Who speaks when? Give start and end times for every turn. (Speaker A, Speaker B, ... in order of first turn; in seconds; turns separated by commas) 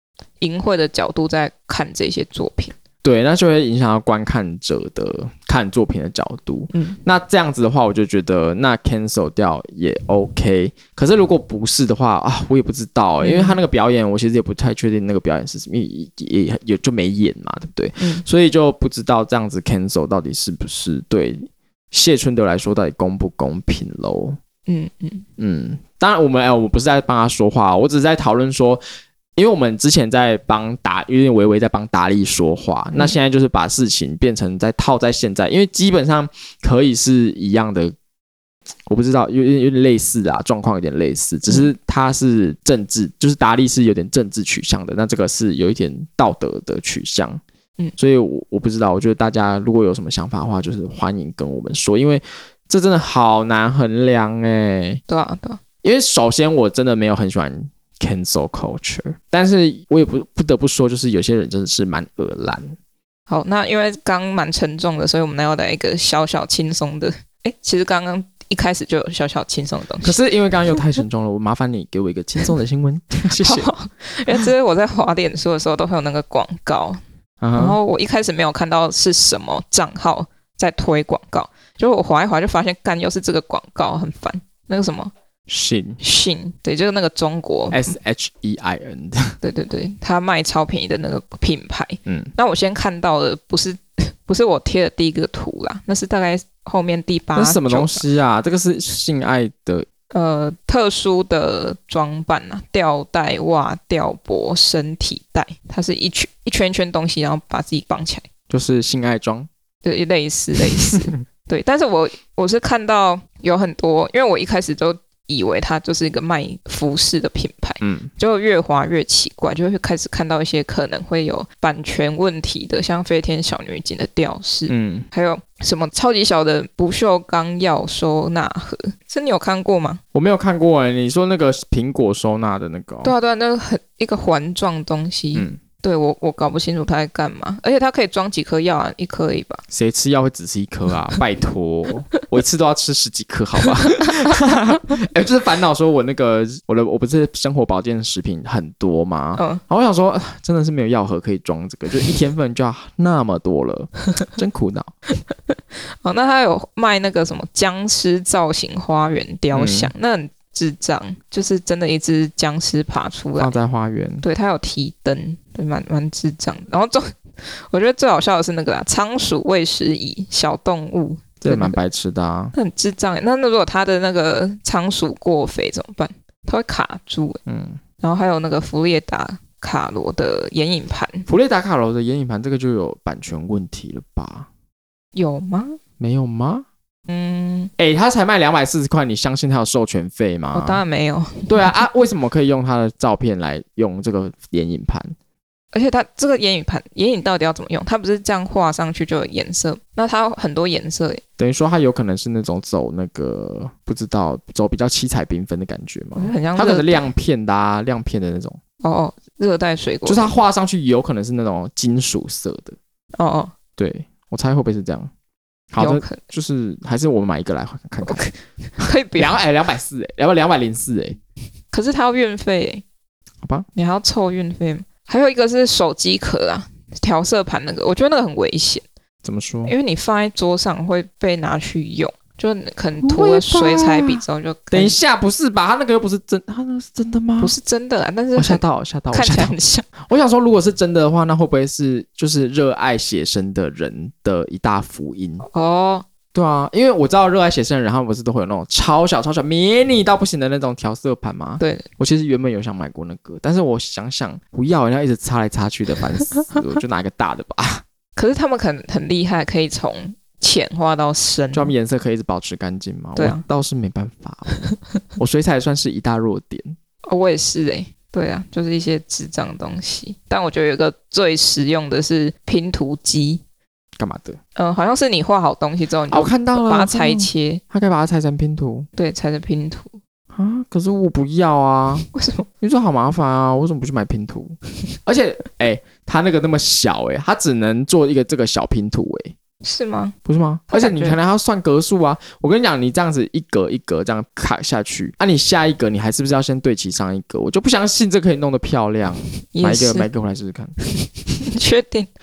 Speaker A: 0.4-2.8, Speaker B: 3.0-24.4, Speaker A: 6.7-7.0, Speaker A: 13.2-13.6, Speaker A: 18.0-18.2, Speaker A: 24.7-25.3, Speaker B: 25.4-28.8, Speaker B: 29.4-37.9, Speaker B: 38.9-47.4, Speaker B: 48.0-55.0, Speaker A: 55.1-55.6, Speaker B: 55.8-62.8, Speaker A: 63.3-70.2, Speaker B: 70.0-73.7, Speaker A: 73.3-77.0, Speaker B: 77.4-77.8, Speaker A: 77.6-85.1, Speaker B: 85.5-86.0, Speaker A: 86.0-87.8, Speaker B: 87.7-89.4, Speaker A: 89.4-98.0, Speaker B: 92.1-92.3, Speaker B: 97.4-99.9, Speaker A: 100.1-108.3, Speaker B: 108.5-109.5, Speaker A: 109.8-130.0, Speaker B: 117.8-118.1, Speaker B: 124.7-125.1, Speaker B: 130.1-133.1, Speaker A: 133.0-139.6, Speaker B: 135.3-135.6, Speaker B: 139.7-154.9, Speaker A: 143.7-144.3, Speaker A: 149.4-149.6, Speaker A: 155.3-163.6, Speaker B: 159.5-159.9, Speaker B: 163.4-164.2, Speaker A: 164.2-171.8, Speaker B: 171.4-172.6, Speaker A: 172.6-177.4, Speaker B: 177.5-177.8, Speaker A: 178.0-181.3, Speaker B: 181.3-184.5, Speaker A: 185.2-185.8, Speaker B: 186.0-186.7, Speaker A: 187.1-187.7, Speaker B: 187.8-190.8, Speaker A: 190.5-191.8, Speaker B: 191.5-195.2, Speaker A: 195.7-201.2, Speaker B: 201.4-208.6, Speaker A: 206.2-207.1, Speaker A: 208.8-210.3, Speaker B: 210.1-212.8, Speaker A: 213.2-213.5, Speaker B: 213.8-215.1, Speaker B: 215.7-218.2, Speaker A: 215.8-216.2, Speaker A: 218.1-219.4, Speaker B: 219.2-221.2, Speaker A: 221.7-222.8, Speaker B: 223.4-223.7, Speaker A: 223.8-228.8, Speaker B: 229.2-229.7, Speaker A: 229.7-235.0, Speaker B: 233.0-237.5, Speaker A: 237.4-239.9, Speaker B: 238.4-245.4, Speaker A: 245.4-246.1, Speaker B: 246.3-257.8, Speaker A: 251.6-251.9, Speaker A: 258.2-261.7, Speaker B: 261.5-264.6, Speaker A: 263.2-263.4, Speaker B: 265.2-266.8, Speaker A: 267.1-273.4, Speaker B: 274.0-274.4, Speaker A: 274.6-277.6, Speaker B: 276.1-278.9, Speaker A: 279.0-279.9, Speaker B: 280.3-282.1, Speaker A: 282.1-282.5, Speaker B: 282.6-289.4, Speaker A: 289.6-290.2, Speaker B: 290.2-300.8, Speaker A: 290.7-291.2, Speaker A: 299.5-300.1, Speaker A: 301.4-302.1